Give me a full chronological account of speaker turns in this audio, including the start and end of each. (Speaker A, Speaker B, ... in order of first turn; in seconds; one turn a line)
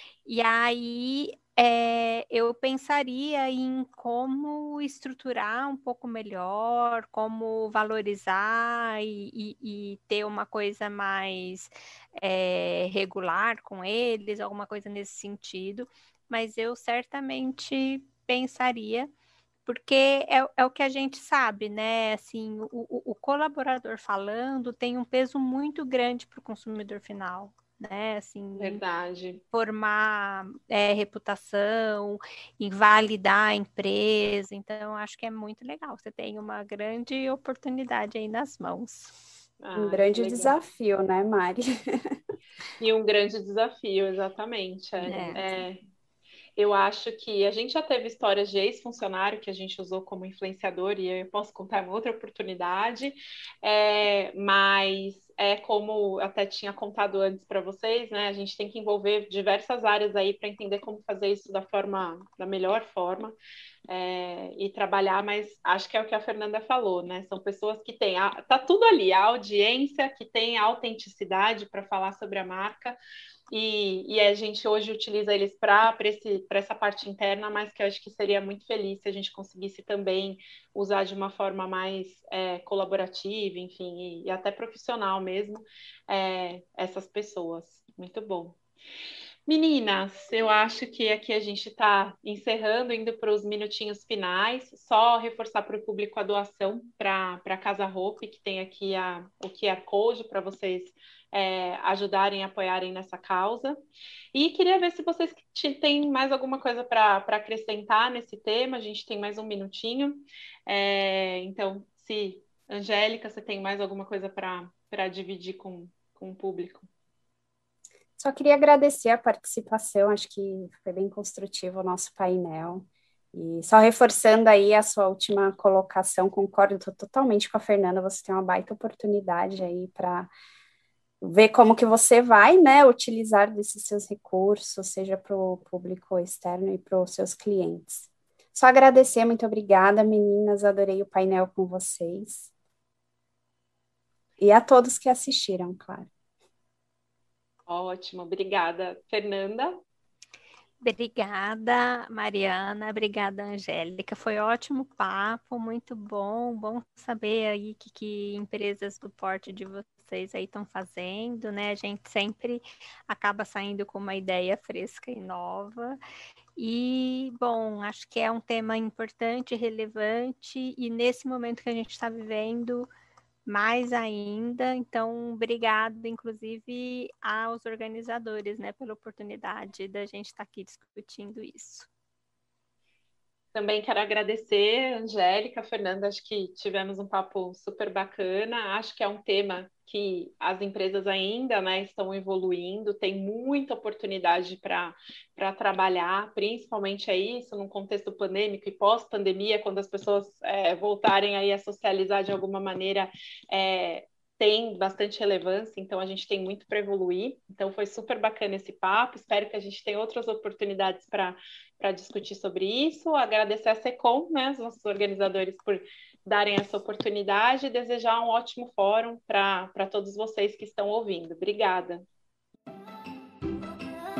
Speaker A: 0.3-19.1
Speaker A: 19.7-28.8
Speaker B: 28.6-29.4
Speaker A: 29.5-39.2
Speaker B: 39.6-40.6
Speaker C: 39.8-42.2
Speaker B: 42.8-45.8
Speaker A: 45.0-45.5
Speaker B: 46.6-63.4
Speaker B: 63.9-73.0
Speaker B: 73.5-88.6
Speaker B: 89.5-103.8
Speaker B: 104.3-116.9
Speaker C: 118.2-130.3
Speaker C: 131.2-142.5
Speaker C: 144.4-146.1
Speaker B: 147.7-149.8
Speaker A: 150.8-166.0
Speaker A: 166.6-172.9
Speaker A: 173.5-181.9
Speaker B: 183.5-222.1